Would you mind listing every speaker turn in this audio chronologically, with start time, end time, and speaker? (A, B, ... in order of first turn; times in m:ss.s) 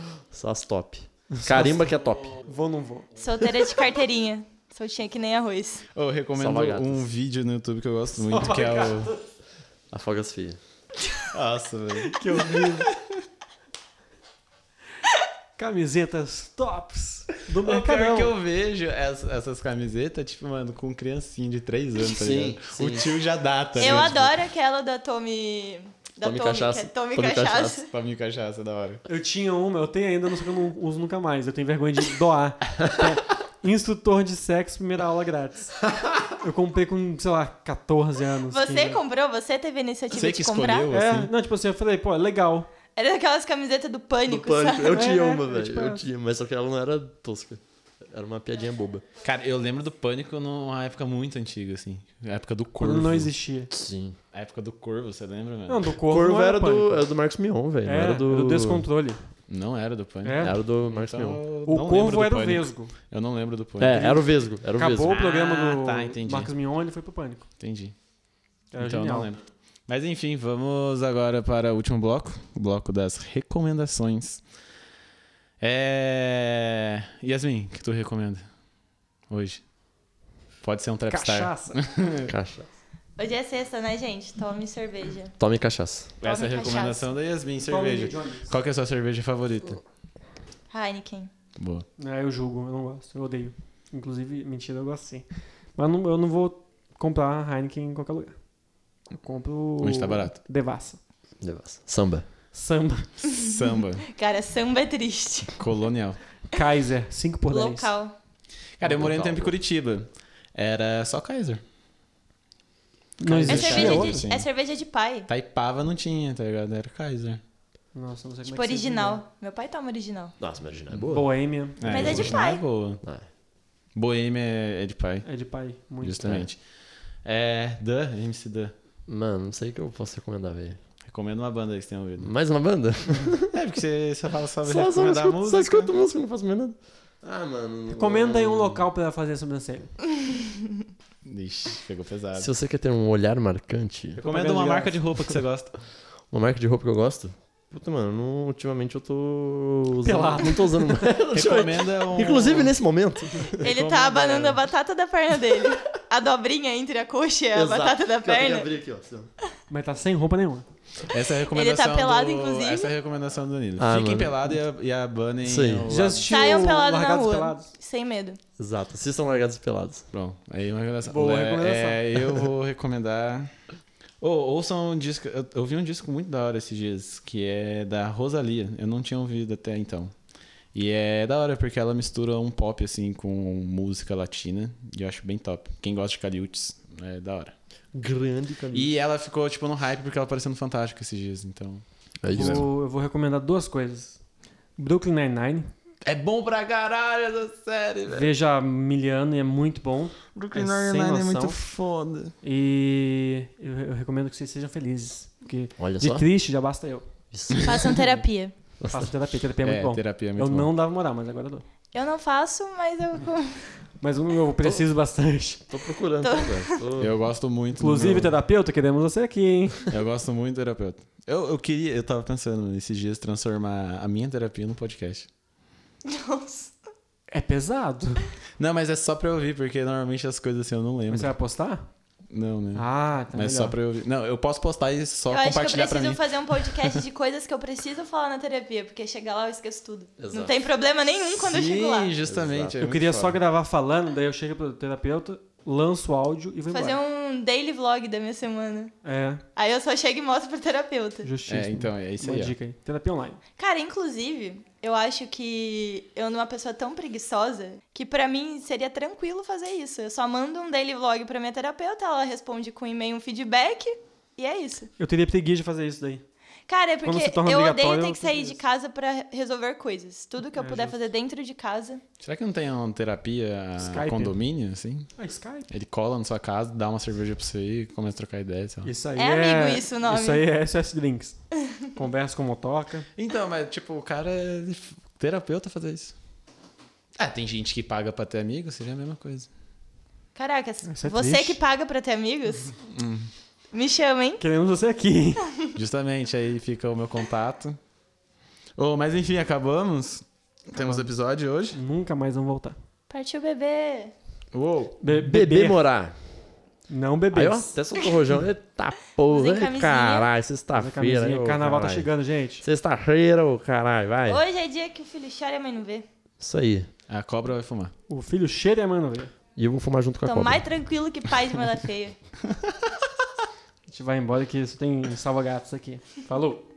0:00.3-0:02.4 A
0:01.3-0:01.8 B
0:02.4-0:03.1 B
0:03.2-0:05.9 C
0:05.9-0:09.1 D
0:06.4-0:07.1 A
0:08.1-0:09.2 B
0:09.9-0:10.6 A
0:11.3-0:13.2 D
0:12.1-0:12.9 B
0:15.6-0:18.3 B
0:17.6-0:24.4 D
0:22.0-0:23.1 A
0:23.8-0:27.9 C
0:26.2-0:27.8 A
0:27.9-0:29.0 D
0:29.0-0:39.0 B
0:38.5-0:40.9 C
0:40.1-0:41.3 D
0:40.9-0:42.7 B
0:43.0-0:45.4 C
0:44.2-0:49.0 A
0:44.9-0:46.0 B
0:49.2-0:53.3 D
0:52.8-0:53.7 B
0:53.7-0:54.2 A
0:54.3-0:55.9 D
0:55.7-0:57.0 B
0:56.1-0:58.9 A
0:57.8-0:59.3 B
0:59.5-1:04.1 D
1:00.2-1:00.6 B
1:00.4-1:01.4 A
1:01.6-1:02.9 B
1:03.8-1:05.2 A
1:03.9-1:07.5 B
1:05.0-1:06.5 D
1:07.6-1:08.0 D
1:08.7-1:09.3 B
1:08.8-1:14.4 D
1:15.6-1:18.4 D
1:19.3-1:19.6 D
1:20.6-1:21.9 D
1:21.1-1:22.3 B
1:22.3-1:22.7 A
1:23.2-1:25.3 C
1:25.4-1:26.1 A
1:26.2-1:29.8 D
1:26.2-1:27.1 C
1:27.7-1:28.5 B
1:30.7-1:31.3 C
1:31.6-1:31.8 D
1:32.0-1:38.4 B
1:39.1-1:41.0 B
1:39.8-1:40.4 D
1:41.4-1:42.2 A
1:42.5-1:43.2 B
1:43.3-1:45.6 C
1:43.3-1:44.0 D
1:45.6-1:46.2 D
1:46.5-1:47.9 B
1:47.5-1:48.1 C
1:48.8-1:51.6 D
1:48.8-1:49.6 A
1:53.2-1:54.2 B
1:53.2-1:54.5 D
1:53.5-1:55.3 C
1:55.3-1:57.4 D
1:57.9-1:59.2 B
1:58.4-2:00.4 C
2:00.4-2:01.3 A
2:01.1-2:02.2 B
2:01.8-2:03.0 D
2:01.8-2:02.6 C
2:01.9-2:02.4 A
2:03.9-2:05.3 D
2:05.2-2:06.2 B
2:06.0-2:06.6 D
2:06.2-2:06.4 A
2:07.2-2:08.7 D
2:09.1-2:10.8 A
2:11.0-2:12.3 D
2:12.2-2:13.6 A
2:13.5-2:15.9 D
2:14.6-2:18.8 A
2:17.9-2:20.0 B
2:21.2-2:22.5 D
2:22.4-2:24.4 A
2:24.2-2:25.0 B
2:24.3-2:25.8 D
2:24.9-2:25.4 A
2:26.3-2:33.6 A
2:30.0-2:31.1 B
2:31.3-2:32.7 D
2:33.5-2:34.6 B
2:33.6-2:38.7 C
2:37.5-2:39.3 A
2:39.7-2:40.6 B
2:41.0-2:46.6 D
2:41.5-2:42.9 C
2:43.8-2:44.4 A
2:45.4-2:45.9 A
2:45.9-2:47.7 B
2:46.3-2:48.4 C
2:48.6-2:50.1 A
2:50.1-2:53.5 D
2:51.0-2:52.4 B
2:54.2-3:00.1 D
3:00.7-3:07.5 D
3:07.9-3:08.9 A
3:08.7-3:12.7 D
3:12.2-3:12.6 A
3:12.3-3:14.2 B
3:14.8-3:15.7 B
3:16.0-3:18.3 D
3:18.1-3:21.6 B
3:20.3-3:22.3 D
3:22.4-3:27.1 B
3:25.8-3:26.3 A
3:27.3-3:28.0 A
3:27.6-3:28.5 C
3:28.8-3:29.1 A
3:28.9-3:31.6 B
3:29.6-3:30.7 D
3:31.9-3:33.8 C
3:34.0-3:35.7 B
3:35.7-3:37.1 A
3:36.2-3:36.8 C
3:37.0-3:38.3 D
3:37.8-3:39.9 B
3:39.9-3:45.3 D
3:46.0-3:46.7 C
3:47.3-3:48.3 B
3:48.6-3:51.3 D
3:51.1-3:51.9 B
3:52.3-3:57.0 D
3:52.7-3:53.8 B
3:55.3-4:02.1 C
4:00.2-4:00.6 A
4:01.4-4:03.4 D
4:02.2-4:02.8 A
4:02.8-4:07.0 B
4:06.7-4:08.9 C
4:09.0-4:09.4 B
4:09.6-4:11.3 C
4:11.2-4:13.4 B
4:11.5-4:12.5 D
4:13.6-4:24.9 C
4:25.0-4:26.2 B
4:26.7-4:32.0 C
4:27.0-4:28.6 B
4:30.6-4:31.0 B
4:32.2-4:35.1 D
4:33.8-4:34.4 B
4:35.2-4:35.7 B
4:35.7-4:38.9 D
4:38.8-4:41.4 B
4:39.2-4:40.4 C
4:41.9-4:43.1 B
4:43.2-4:46.1 D
4:47.2-4:49.5 D
4:50.3-4:52.7 C
4:50.8-4:51.6 B
4:52.9-4:53.3 D
4:53.7-4:54.4 C
4:54.4-4:55.4 B
4:55.8-4:57.8 D
4:58.8-5:01.8 D
5:00.7-5:01.1 B
5:01.7-5:02.8 B
5:03.1-5:04.1 C
5:04.5-5:05.0 D
5:05.0-5:05.8 B
5:05.1-5:06.4 A
5:06.9-5:07.8 B
5:07.3-5:12.1 A
5:09.3-5:10.3 C
5:10.7-5:12.6 B
5:12.6-5:14.4 A
5:14.3-5:16.0 C
5:16.4-5:16.9 A
5:17.1-5:17.9 D
5:18.1-5:19.3 B
5:19.6-5:20.6 A
5:20.2-5:22.2 C
5:23.9-5:26.6 B